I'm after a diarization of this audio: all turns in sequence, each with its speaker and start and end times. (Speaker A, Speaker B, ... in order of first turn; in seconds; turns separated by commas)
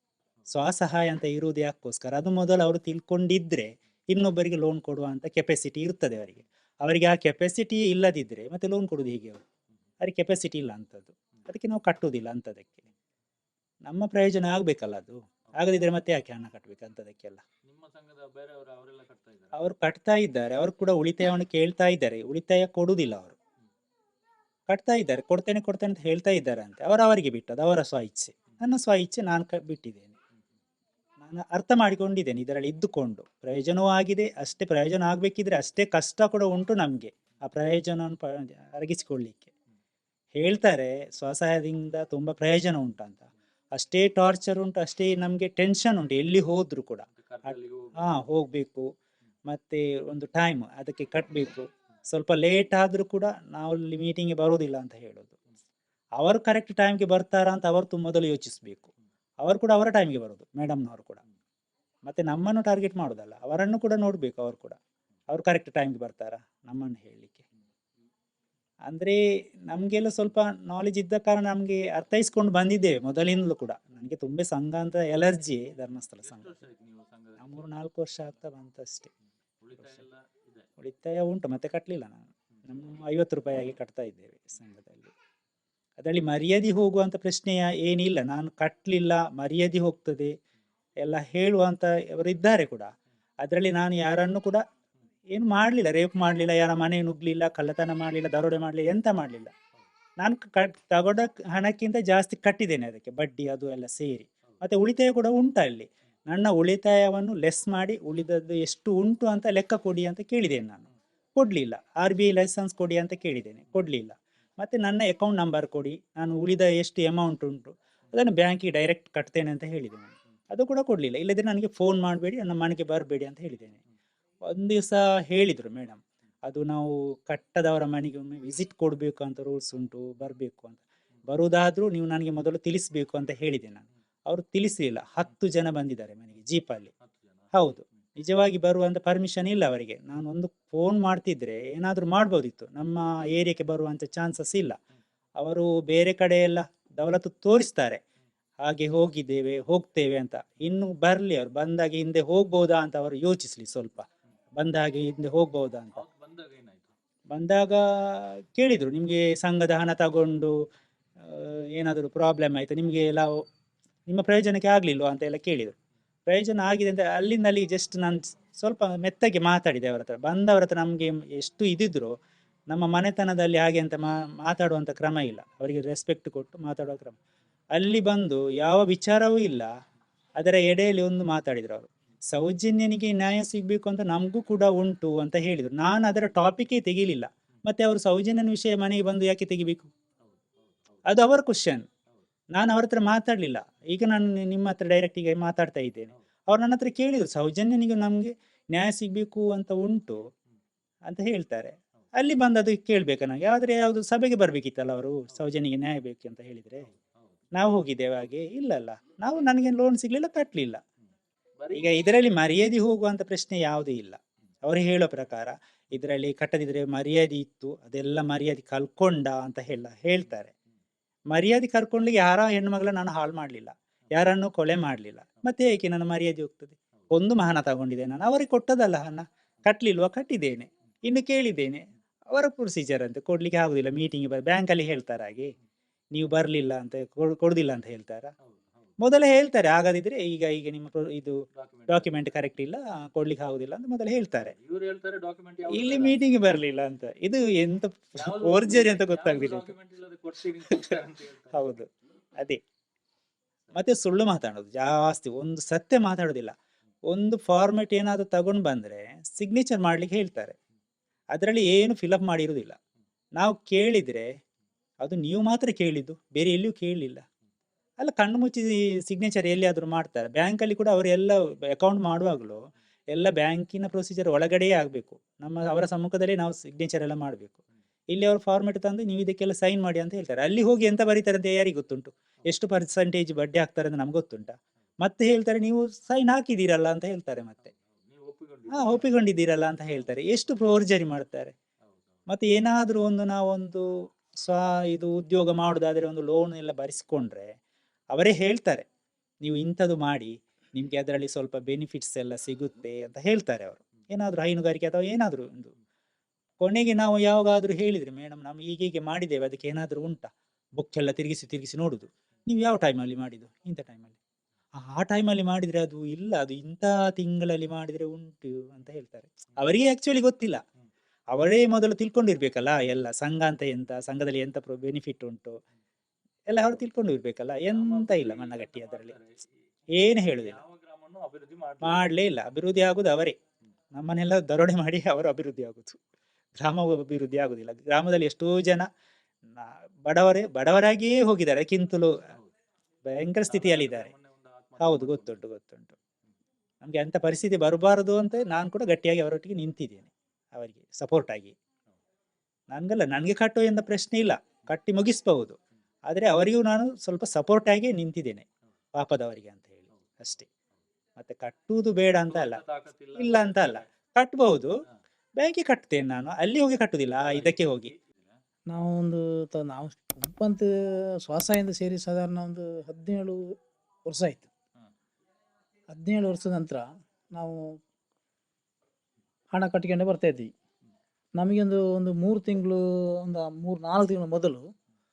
Speaker A: 0.5-9.4, Speaker A: 10.0-12.9, Speaker A: 13.8-17.4, Speaker B: 17.6-19.6, Speaker A: 19.6-23.4, Speaker A: 24.7-30.1, Speaker A: 31.2-39.5, Speaker A: 40.3-48.9, Speaker B: 47.2-48.1, Speaker A: 49.5-55.4, Speaker A: 56.2-58.9, Speaker A: 59.4-61.2, Speaker A: 62.0-64.8, Speaker A: 65.3-67.4, Speaker A: 68.8-76.6, Speaker B: 76.2-77.7, Speaker A: 77.4-79.1, Speaker B: 79.6-80.7, Speaker A: 80.8-85.1, Speaker A: 86.0-90.3, Speaker A: 91.0-92.9, Speaker A: 93.4-94.6, Speaker A: 95.3-99.5, Speaker A: 100.2-123.8, Speaker A: 124.5-136.9, Speaker B: 137.0-137.5, Speaker A: 137.5-144.8, Speaker A: 145.4-148.0, Speaker A: 148.6-156.0, Speaker B: 155.9-156.9, Speaker A: 157.3-160.6, Speaker A: 161.2-163.4, Speaker A: 164.1-165.8, Speaker A: 166.3-172.2, Speaker A: 172.7-177.2, Speaker A: 177.7-179.7, Speaker A: 180.4-189.9, Speaker B: 190.2-191.0, Speaker A: 191.1-191.9, Speaker A: 192.5-200.2, Speaker A: 201.1-206.9, Speaker B: 206.9-207.4, Speaker A: 207.5-210.8, Speaker B: 211.6-211.9, Speaker A: 211.7-220.5, Speaker A: 221.3-235.5, Speaker A: 236.1-238.3, Speaker B: 238.4-238.9, Speaker A: 239.0-244.5, Speaker B: 241.6-242.1, Speaker B: 244.5-246.2, Speaker A: 245.7-249.7, Speaker B: 248.2-251.8, Speaker A: 251.5-252.6, Speaker A: 253.7-256.6, Speaker A: 257.1-260.6, Speaker A: 261.3-262.8, Speaker A: 263.4-264.3, Speaker A: 265.0-267.2, Speaker A: 268.0-272.6, Speaker A: 273.1-277.6, Speaker A: 278.1-287.7, Speaker B: 287.6-289.1, Speaker A: 288.7-291.5, Speaker B: 291.9-292.2, Speaker A: 292.3-293.9, Speaker A: 294.4-297.6, Speaker A: 298.1-298.9, Speaker A: 299.4-305.7, Speaker A: 306.6-314.2, Speaker A: 314.8-320.6, Speaker A: 321.3-325.6, Speaker A: 326.5-329.1, Speaker B: 327.7-329.4, Speaker A: 329.9-330.6, Speaker B: 330.4-332.1, Speaker A: 331.8-333.4, Speaker A: 333.9-336.0, Speaker A: 336.6-338.9, Speaker A: 339.6-342.2, Speaker A: 343.1-344.1, Speaker B: 343.5-345.4, Speaker A: 344.8-346.0, Speaker A: 346.8-351.6, Speaker A: 352.7-360.5, Speaker A: 361.2-362.6, Speaker B: 362.3-363.9, Speaker A: 363.2-364.7, Speaker A: 365.4-367.9, Speaker B: 367.2-368.4, Speaker C: 368.7-370.7, Speaker C: 371.2-374.5, Speaker C: 375.9-377.8, Speaker C: 379.5-380.5, Speaker C: 381.4-384.7